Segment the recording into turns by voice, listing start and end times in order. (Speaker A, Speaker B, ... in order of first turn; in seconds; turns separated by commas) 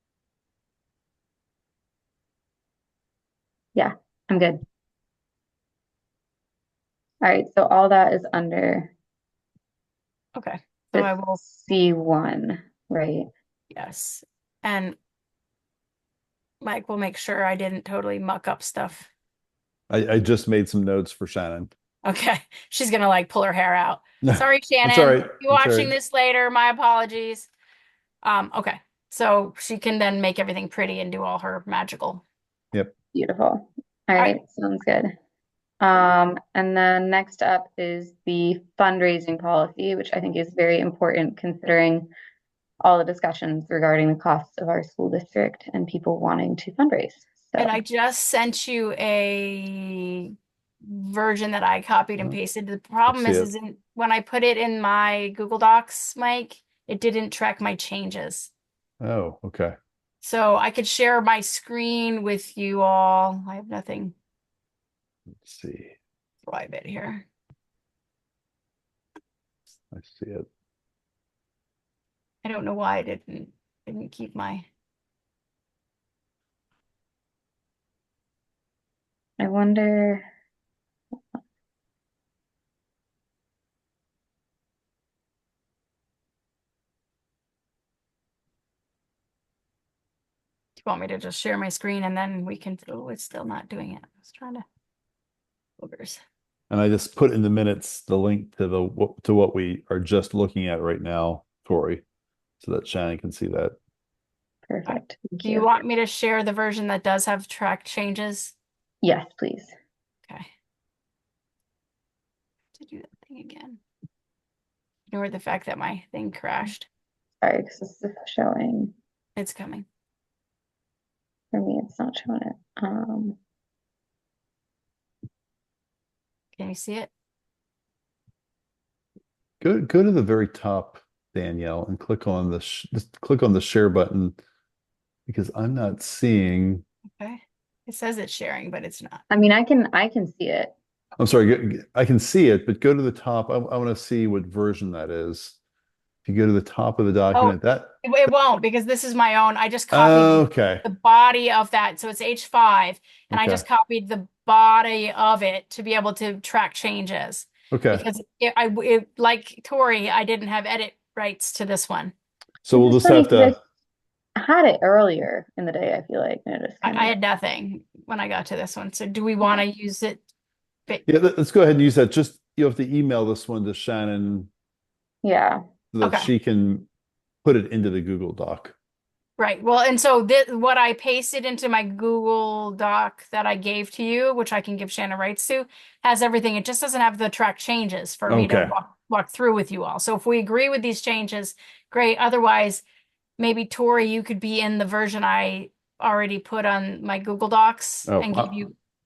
Speaker A: 3.7-4.6, Speaker A: 7.2-8.9, Speaker B: 10.3-11.4, Speaker A: 10.9-13.3, Speaker B: 13.7-15.0, Speaker B: 16.6-19.1, Speaker C: 19.9-21.7, Speaker B: 22.0-27.5, Speaker C: 24.2-25.9, Speaker B: 28.2-32.2, Speaker A: 33.1-35.1, Speaker A: 35.8-42.1, Speaker A: 42.8-47.8, Speaker B: 47.6-58.5, Speaker C: 53.1-53.5, Speaker C: 59.0-59.7, Speaker B: 60.2-64.1, Speaker C: 65.4-66.0, Speaker B: 66.5-67.2, Speaker C: 69.9-70.5, Speaker B: 72.4-74.7, Speaker A: 79.4-80.3, Speaker B: 90.8-94.6, Speaker B: 95.8-96.2, Speaker C: 96.7-102.0, Speaker C: 102.6-103.7, Speaker A: 104.7-105.7, Speaker B: 104.8-108.5, Speaker A: 109.0-109.7, Speaker B: 112.7-113.8, Speaker B: 115.1-116.9, Speaker A: 117.4-118.9, Speaker B: 119.3-119.8, Speaker A: 121.5-123.4, Speaker B: 126.5-127.1, Speaker C: 129.6-134.4, Speaker C: 135.3-136.8, Speaker B: 137.2-139.2, Speaker A: 139.3-140.7, Speaker C: 141.2-145.6, Speaker C: 146.2-148.0, Speaker B: 147.3-162.1, Speaker C: 149.9-150.8, Speaker C: 153.3-153.6, Speaker C: 157.7-158.0, Speaker C: 162.6-163.6, Speaker A: 162.7-163.6, Speaker A: 164.4-167.2, Speaker B: 166.8-170.2, Speaker C: 171.1-174.5, Speaker A: 175.2-175.6, Speaker C: 175.9-176.9, Speaker B: 176.0-176.3, Speaker C: 177.4-178.7, Speaker B: 179.4-192.8, Speaker C: 188.3-188.7, Speaker B: 193.4-198.7, Speaker C: 198.1-198.5